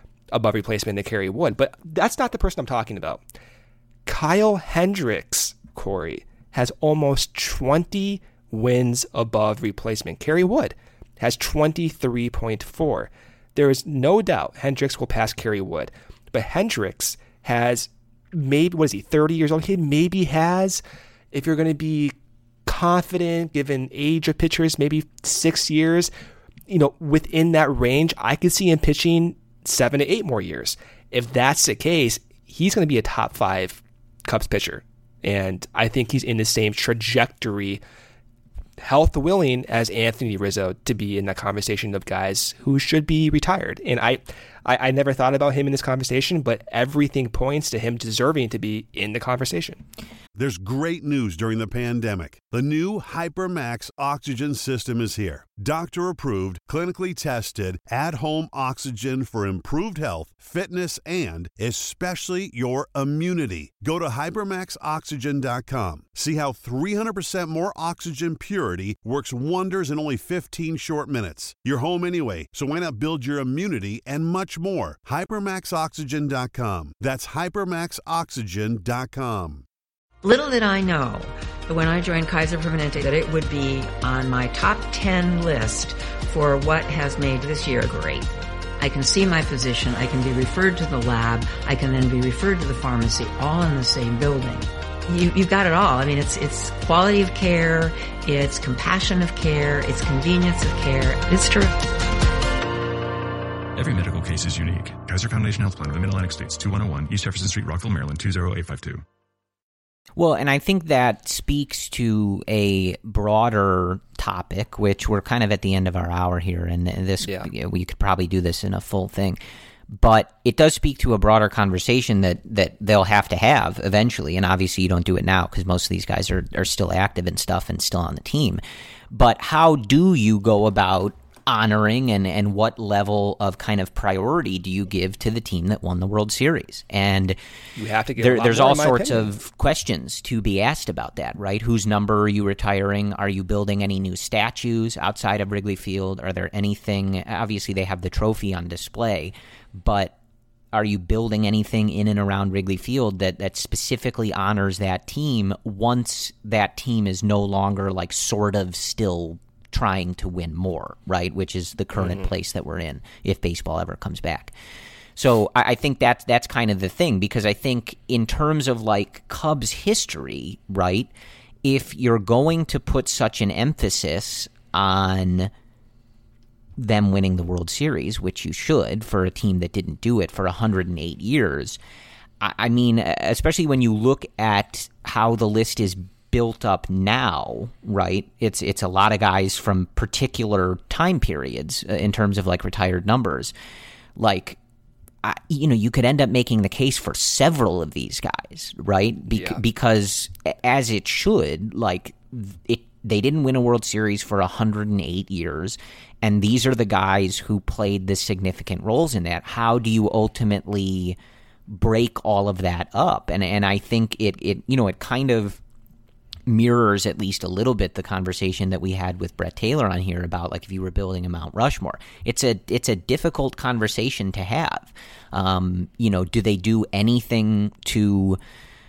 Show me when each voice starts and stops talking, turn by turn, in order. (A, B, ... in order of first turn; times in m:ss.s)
0:00.3-0:03.2 A
0:04.0-0:22.1 A
0:22.6-0:26.1 A
0:26.7-0:37.8 A
0:38.8-0:49.8 A
0:50.3-1:19.6 B
1:20.2-1:28.3 C
1:28.8-1:41.8 C
1:43.8-1:49.0 D
1:50.2-1:59.4 E
1:57.2-1:57.5 A
1:59.9-2:17.4 E
2:17.8-2:19.3 A
2:18.2-2:30.1 E
2:30.7-2:44.5 E
2:41.9-2:42.3 A
2:45.2-2:51.1 E
2:51.6-2:55.5 E
2:56.8-3:01.8 E
3:02.4-3:13.5 E
3:14.2-3:14.6 E
3:15.2-3:31.2 E
3:19.3-3:19.6 A
3:31.7-3:35.6 E
3:36.5-3:48.4 E